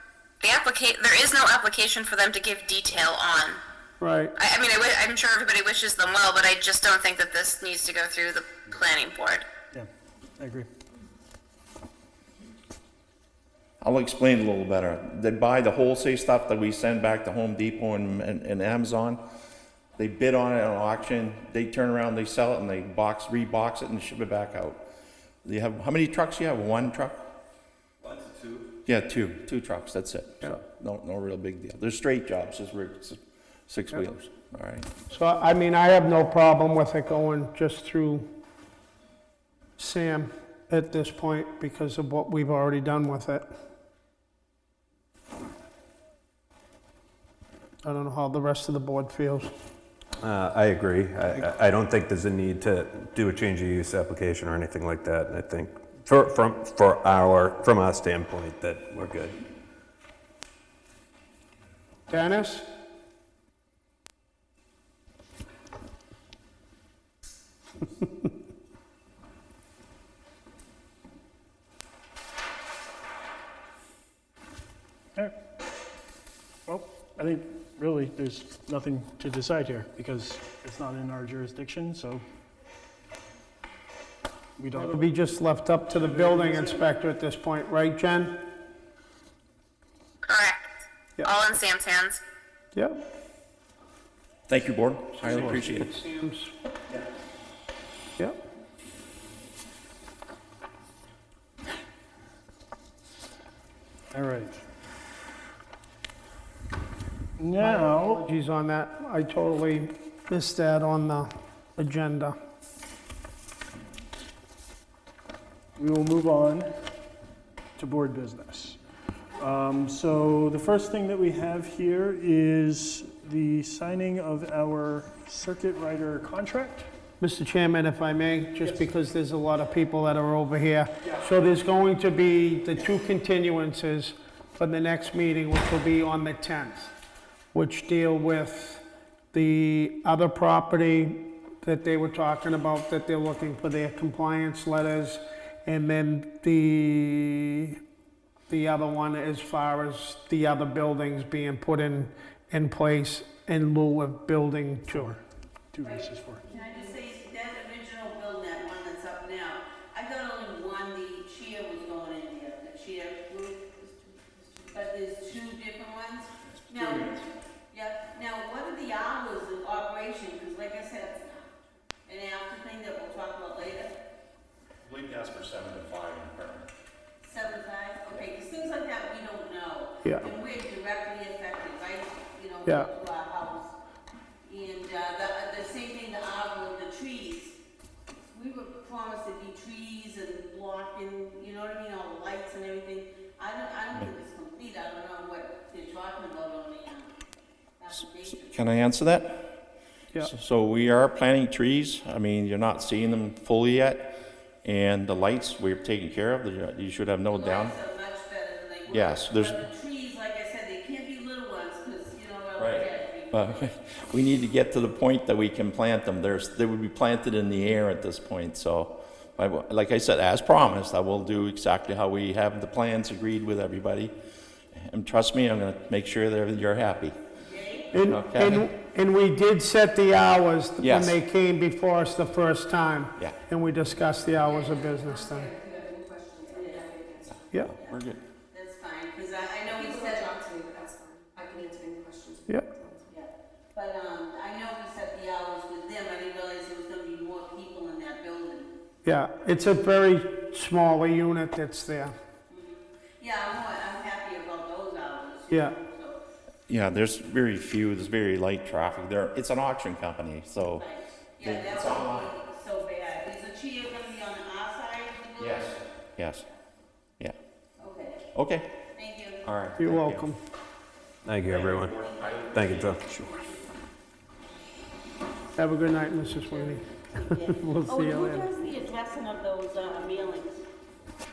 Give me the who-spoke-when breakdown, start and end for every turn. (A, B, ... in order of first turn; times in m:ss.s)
0:00.4-0:03.6 A
0:04.0-0:04.3 B
0:04.4-0:09.4 A
0:10.4-0:10.7 C
0:13.8-0:19.2 D
0:20.0-0:24.8 D
0:25.4-0:27.2 D
0:28.8-0:34.9 D
0:35.1-0:38.3 B
0:39.8-0:43.5 B
0:47.8-0:49.5 B
0:50.2-0:59.4 E
1:02.1-1:02.7 B
1:16.7-1:22.2 C
1:24.6-1:25.0 C
1:24.7-1:28.4 B
1:25.9-1:26.9 C
1:30.2-1:30.7 A
1:31.2-1:32.2 A
1:34.5-1:35.9 D
1:35.2-1:36.5 B
1:44.1-1:44.6 C
1:47.4-1:48.2 C
1:47.6-1:52.4 B
1:55.8-1:56.7 C
1:57.8-1:58.8 C
1:59.4-2:06.9 C
2:07.2-2:16.9 B
2:17.5-2:27.8 B
2:28.5-2:35.2 B
2:34.9-2:35.2 C
2:35.7-2:36.4 C
2:35.8-2:43.7 F
2:36.5-2:36.8 G
2:43.8-2:44.8 G
2:44.7-2:47.1 F
2:46.6-2:47.2 D
2:47.7-2:51.5 F
2:52.1-2:54.0 F
2:54.8-2:56.7 D
2:57.2-3:03.7 F
3:00.0-3:00.3 B
3:04.4-3:07.5 F
3:08.3-3:17.1 F
3:17.8-3:18.6 F
3:18.5-3:19.6 D
3:20.2-3:27.8 D
3:27.3-3:33.6 F
3:28.9-3:29.6 D
3:32.6-3:44.1 D
3:44.7-3:47.2 D
3:47.4-3:47.9 F
3:47.9-3:55.5 B
3:48.0-3:48.7 D
3:50.8-3:51.2 D
3:54.4-3:57.6 G
3:56.4-3:56.9 F
3:57.6-3:58.2 D
3:58.5-4:00.3 F
3:59.6-4:03.0 G
4:03.1-4:08.8 F
4:09.0-4:12.1 B
4:12.5-4:16.2 F
4:15.5-4:15.8 B
4:16.7-4:20.8 D
4:20.6-4:25.8 F
4:21.4-4:22.3 D
4:25.4-4:26.4 D
4:27.8-4:28.3 F
4:28.3-4:28.8 D
4:28.9-4:29.4 F
4:29.4-4:30.2 D
4:29.8-4:30.4 B
4:31.2-4:32.0 E
4:31.4-4:33.2 D
4:31.5-4:33.6 F
4:32.5-4:33.0 E
4:35.6-4:38.5 B
4:36.5-4:40.6 F